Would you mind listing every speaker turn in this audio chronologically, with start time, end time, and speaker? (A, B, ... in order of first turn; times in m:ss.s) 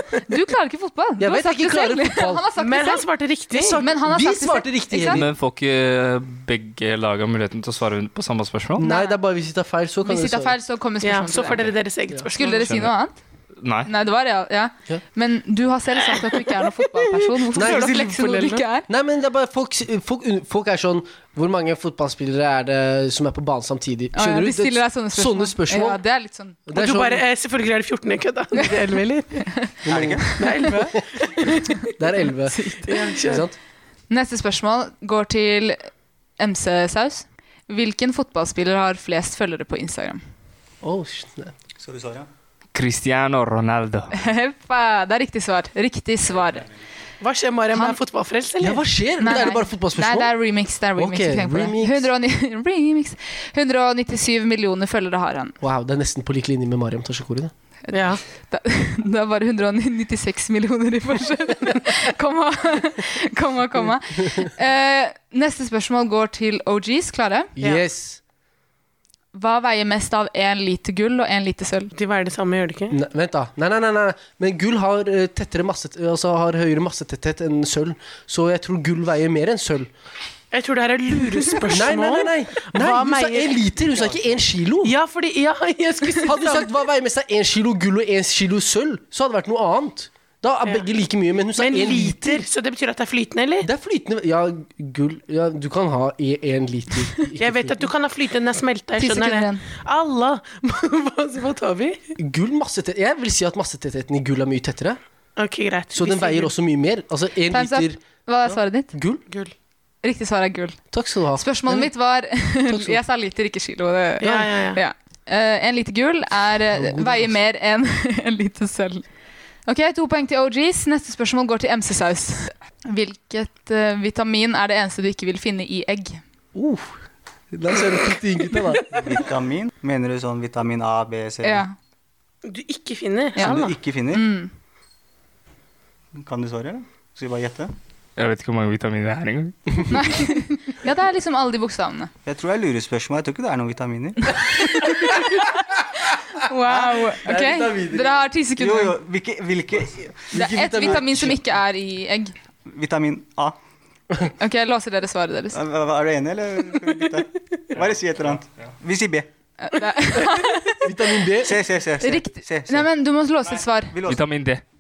0:00.2-0:05.2 A
0:01.2-0:02.4 B
0:02.6-0:03.8 C
0:03.5-0:05.3 B
0:05.0-0:08.9 D
0:08.8-0:10.6 B
0:08.8-0:09.2 A
0:10.0-0:11.7 A
0:11.0-0:12.7 C
0:12.3-0:13.1 A
0:12.6-0:12.9 D
0:13.6-0:13.9 D
0:13.8-0:18.9 A
0:17.5-0:18.2 B
0:17.5-0:18.6 C
0:18.9-0:26.0 B
0:24.1-0:26.6 A
0:26.7-0:27.2 B
0:26.7-0:29.5 C
0:29.4-0:29.8 A
0:29.8-0:30.3 B
0:29.8-0:30.4 E
0:30.4-0:31.7 C
0:30.4-0:30.7 A
0:31.5-0:31.9 A
0:32.0-0:33.6 B
0:32.5-0:33.2 A
0:32.8-0:33.4 C
0:34.1-0:40.2 A
0:40.8-0:41.5 B
0:41.8-0:42.3 E
0:42.7-0:44.1 D
0:44.1-0:46.7 A
0:47.2-0:48.8 C
0:48.6-0:50.3 B
0:49.2-0:55.6 A
0:51.0-0:52.1 B
0:55.6-0:57.5 B
0:57.9-1:07.5 A
0:57.9-0:58.2 C
1:07.6-1:08.2 B
1:07.6-1:07.8 C
1:09.3-1:11.9 A
1:11.9-1:13.0 C
1:12.9-1:19.9 B
1:20.5-1:23.6 C
1:21.6-1:24.9 B
1:24.8-1:26.7 C
1:26.2-1:32.4 B
1:31.6-1:33.7 C
1:33.6-1:37.9 B
1:37.4-1:42.1 C
1:39.0-1:39.6 A
1:42.2-1:45.0 B
1:45.4-1:46.5 C
1:45.9-1:48.0 B
1:47.5-1:48.9 A
1:48.9-1:49.2 B
1:50.0-1:50.8 A
1:50.9-1:51.9 B
1:51.3-1:59.1 A
1:52.6-1:53.0 B
1:54.2-1:54.8 C
1:54.2-1:54.5 B
1:56.7-1:57.3 B
1:59.6-2:06.2 A
2:06.5-2:09.0 B
2:08.9-2:11.6 E
2:11.4-2:11.7 A
2:12.4-2:13.8 C
2:13.4-2:14.5 A
2:13.4-2:14.3 E
2:16.1-2:17.7 E
2:18.2-2:19.9 D
2:19.9-2:22.1 A
2:22.2-2:25.2 E
2:24.4-2:25.5 A
2:26.0-2:29.0 A
2:27.1-2:28.2 B
2:28.6-2:31.0 E
2:30.3-2:31.4 B
2:30.3-2:32.3 A
2:32.7-2:33.6 E
2:34.4-2:35.6 A
2:35.5-2:39.3 E
2:39.6-2:40.9 A
2:40.8-2:41.6 B
2:41.4-2:42.9 E
2:42.0-2:44.0 A
2:43.9-2:44.2 E
2:44.0-2:44.6 D